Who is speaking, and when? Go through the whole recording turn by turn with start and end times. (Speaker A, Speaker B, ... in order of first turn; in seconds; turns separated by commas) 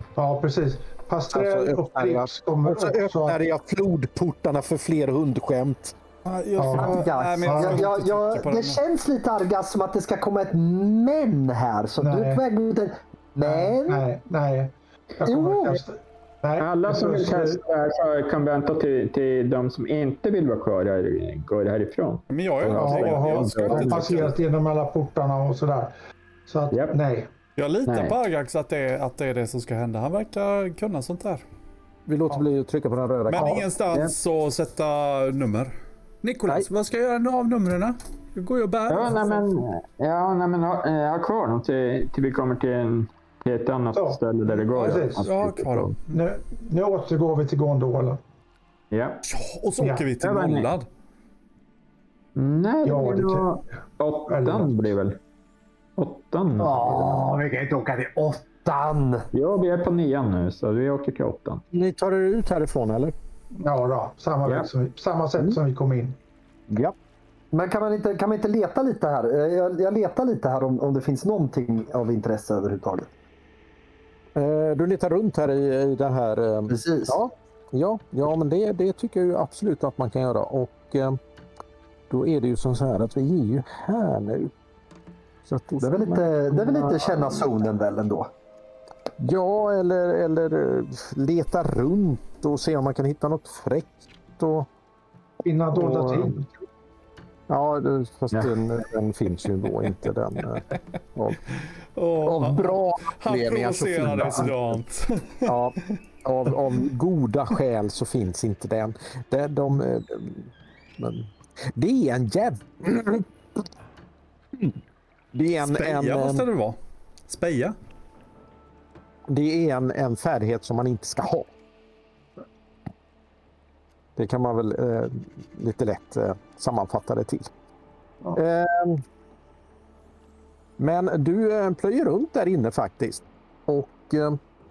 Speaker A: 0.1-3.4, Speaker B: 1.3-6.0, Speaker C: 6.2-8.8, Speaker A: 6.6-7.9, Speaker D: 6.7-14.0, Speaker A: 12.0-12.4, Speaker A: 13.4-17.6, Speaker D: 15.2-15.8, Speaker E: 16.6-24.3, Speaker C: 22.3-24.3, Speaker A: 22.7-25.9, Speaker A: 26.5-27.3, Speaker E: 26.7-27.0, Speaker C: 27.6-31.4, Speaker E: 27.9-28.1, Speaker B: 32.1-33.7, Speaker C: 33.3-39.5, Speaker E: 33.4-34.1, Speaker E: 38.9-45.9, Speaker A: 43.9-44.2, Speaker A: 44.7-45.2, Speaker C: 44.7-46.2, Speaker A: 46.1-48.2, Speaker E: 48.9-49.2, Speaker C: 49.2-50.9, Speaker A: 49.8-50.1, Speaker E: 50.2-50.7, Speaker E: 52.4-55.2, Speaker A: 52.8-53.5, Speaker A: 54.3-54.9, Speaker E: 56.0-57.0, Speaker B: 56.6-58.6, Speaker D: 58.4-59.2, Speaker E: 59.3-61.6, Speaker B: 61.7-63.1, Speaker A: 63.6-66.2, Speaker B: 66.7-67.0, Speaker D: 67.5-73.1, Speaker B: 74.3-81.2, Speaker D: 76.7-77.2, Speaker B: 82.1-84.5, Speaker B: 85.5-87.5, Speaker D: 85.8-88.3, Speaker B: 89.2-94.7, Speaker A: 95.4-96.5, Speaker B: 95.7-96.3, Speaker B: 97.5-101.4, Speaker C: 102.0-105.5, Speaker B: 102.2-104.5, Speaker B: 105.5-113.3, Speaker B: 115.3-116.5, Speaker C: 115.6-116.8, Speaker C: 117.3-117.7, Speaker B: 119.3-121.5, Speaker B: 124.2-127.5, Speaker B: 128.3-129.0, Speaker B: 130.8-134.4